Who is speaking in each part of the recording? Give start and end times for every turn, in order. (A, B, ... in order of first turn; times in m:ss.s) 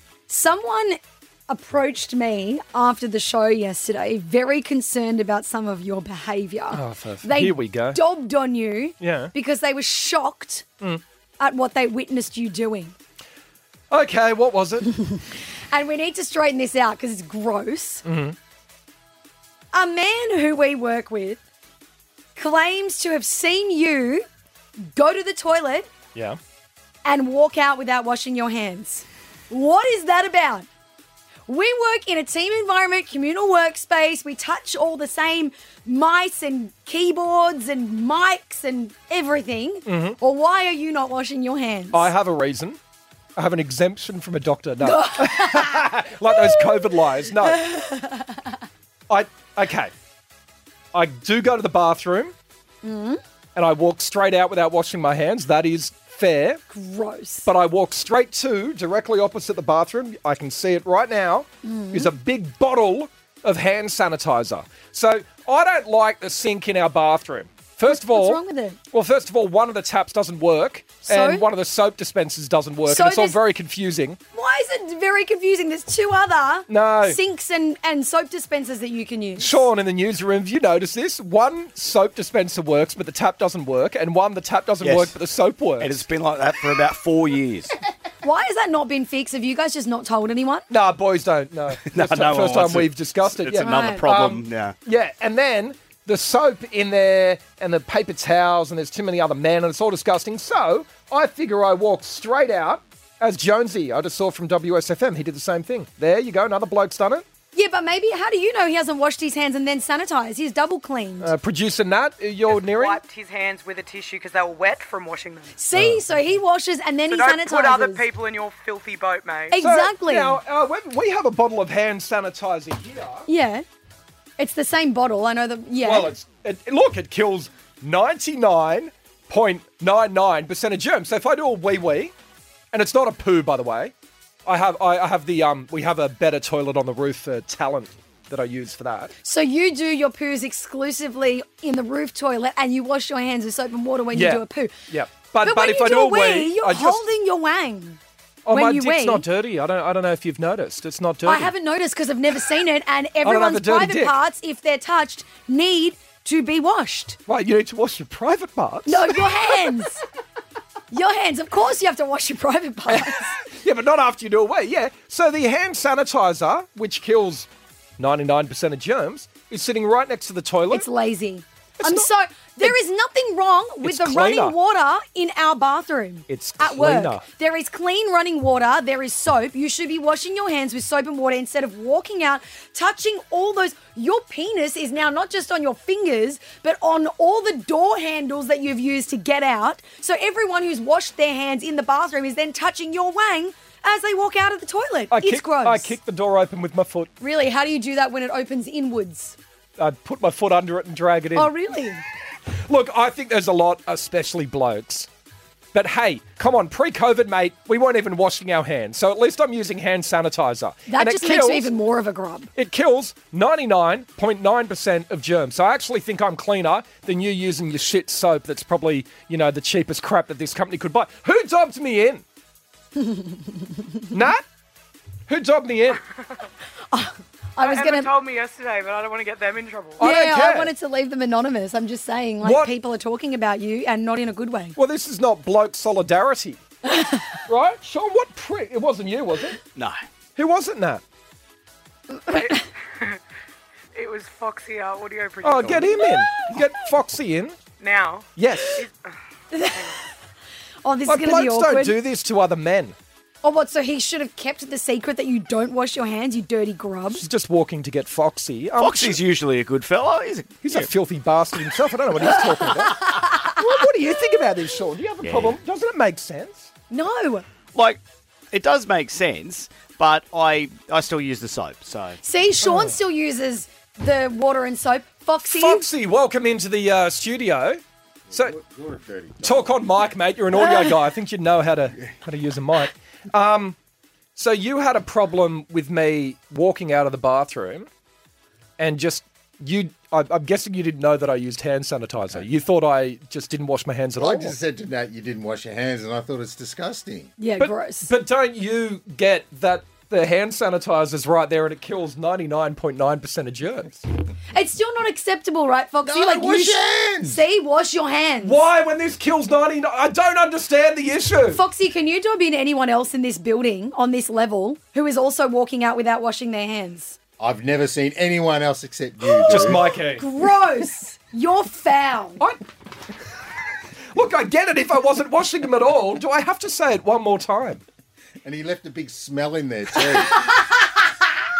0:00.3-0:01.0 A
0:01.5-0:10.6 A
0:06.7-0:08.0 B
0:09.0-0:09.3 B
0:11.4-0:12.9 A
0:13.9-0:15.0 B
0:15.1-0:18.0 A
0:18.0-0:18.4 B
0:19.7-0:21.4 A
0:22.4-0:24.2 A
0:24.8-0:25.9 A
0:27.0-0:30.7 A
0:31.5-0:42.1 A
0:39.8-0:40.2 B
0:41.9-0:42.8 B
0:43.4-0:47.7 B
0:44.8-0:46.8 A
0:47.4-0:48.6 A
0:49.1-0:49.9 B
0:50.9-0:52.3 B
0:52.8-0:53.2 A
0:53.5-0:56.6 B
0:56.7-0:57.5 A
0:57.4-1:08.4 B
1:01.6-1:02.1 A
1:07.9-1:08.8 A
1:08.9-1:14.2 B
1:11.1-1:11.4 A
1:12.8-1:13.4 A
1:14.3-1:19.6 A
1:16.7-1:17.2 B
1:19.4-1:26.0 B
1:24.8-1:25.1 C
1:25.8-1:27.7 C
1:28.2-1:30.7 A
1:30.7-1:47.2 B
1:31.8-1:34.7 C
1:33.6-1:34.1 A
1:47.5-1:51.3 A
1:51.2-1:53.0 B
1:52.5-1:55.6 D
1:55.6-1:58.0 A
1:55.7-1:56.0 B
1:57.1-1:59.6 D
1:59.5-2:00.4 A
1:59.6-2:03.3 B
2:03.3-2:03.6 A
2:04.4-2:06.1 A
2:05.8-2:12.1 B
2:12.7-2:13.9 B
2:14.4-2:19.1 B
2:19.2-2:24.7 A
2:24.1-2:27.0 B
2:25.4-2:29.2 A
2:28.4-2:31.5 B
2:31.2-2:37.2 A
2:33.2-2:34.2 B
2:37.3-2:39.7 B
2:38.8-2:40.0 A
2:40.9-2:43.4 A
2:42.9-2:50.8 B
2:50.7-3:16.0 A
2:51.8-2:52.1 B
2:53.8-2:54.5 B
2:56.3-2:57.2 B
3:15.1-3:17.1 B
3:17.2-3:19.4 A
3:19.8-3:21.5 B
3:21.3-3:22.0 A
3:22.7-3:25.1 B
3:25.7-3:31.7 B
3:30.9-3:32.5 A
3:32.5-3:42.2 B
3:43.0-3:44.0 A
3:44.1-3:44.4 B
3:45.3-3:46.0 B
3:46.9-3:48.1 A
3:47.6-3:50.0 D
3:50.0-3:54.8 A
3:50.0-3:50.7 B
3:52.4-3:52.7 B
3:54.8-3:56.6 B
3:56.8-3:57.4 A
3:57.5-3:59.6 B
3:59.8-4:00.0 C
4:00.4-4:01.0 B
4:02.3-4:03.2 D
4:03.9-4:06.2 D
4:05.4-4:07.6 B
4:07.8-4:09.1 D
4:08.4-4:08.8 B
4:09.5-4:10.1 A
4:10.8-4:12.0 A
4:11.0-4:12.9 B
4:13.4-4:17.2 A
4:17.1-4:19.2 B
4:18.8-4:20.9 C
4:20.6-4:26.7 B
4:22.6-4:23.8 A
4:25.2-4:25.6 C
4:26.9-4:27.4 A
4:27.7-4:28.0 C
4:28.5-4:32.2 C
4:32.2-4:35.9 A
4:32.6-4:32.9 B
4:35.4-4:37.8 B
4:38.3-4:39.8 E
4:39.4-4:43.8 B
4:44.4-4:47.9 B
4:48.8-4:54.6 B
4:54.2-4:57.3 E
4:57.4-4:58.1 A
4:57.6-5:04.0 B
5:04.5-5:08.6 A
5:06.0-5:07.4 E
5:08.4-5:11.6 B
5:11.5-5:17.2 A
5:17.4-5:19.8 E
5:19.4-5:20.2 B
5:20.1-5:22.4 A
5:24.1-5:27.8 B
5:28.4-5:30.5 E